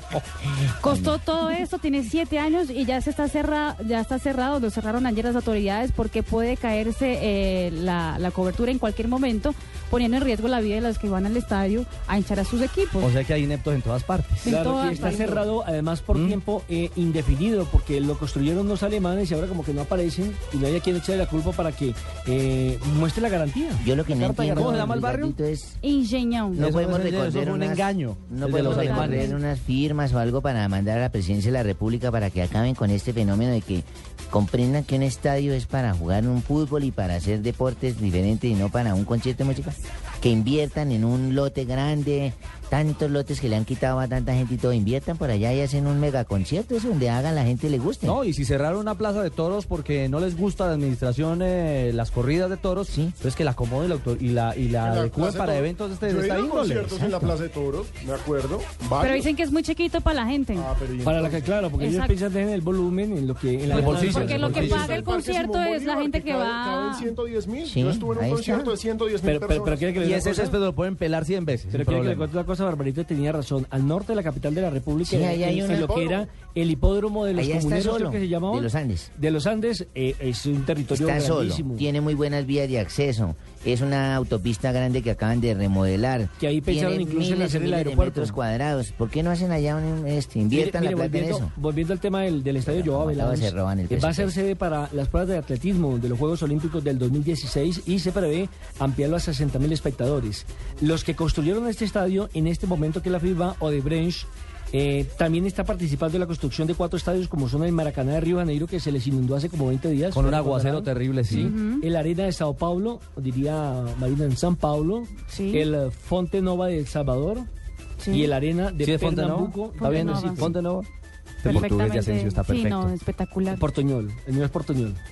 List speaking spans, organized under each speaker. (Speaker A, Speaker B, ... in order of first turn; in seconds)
Speaker A: 0.8-13.1, 14.4-15.4, 25.8-26.6, 28.5-29.4, 59.0-60.7, 61.7-62.1, 63.7-67.1, 111.3-111.8, 115.3-115.7, 118.0-118.3, 119.8-120.5, 121.4-123.6
Speaker B: 0.8-1.2, 23.8-25.8, 26.5-48.1, 67.7-68.7, 75.0-75.9, 77.3-79.1, 80.9-91.5, 92.6-94.3
Speaker C: 13.0-14.5, 16.1-16.4, 24.5-25.4, 26.6-29.3, 48.0-57.3, 63.7-64.9, 70.0-72.3, 110.1-111.5, 118.8-120.9, 121.4-122.9
Speaker D: 14.4-24.8, 61.0-65.0, 69.2-70.5, 71.7-81.8, 86.4-88.3, 90.5-117.5, 118.1-120.5, 123.5-125.0
Speaker E: 54.8-59.3, 60.5-61.5, 64.2-70.2, 75.6-76.2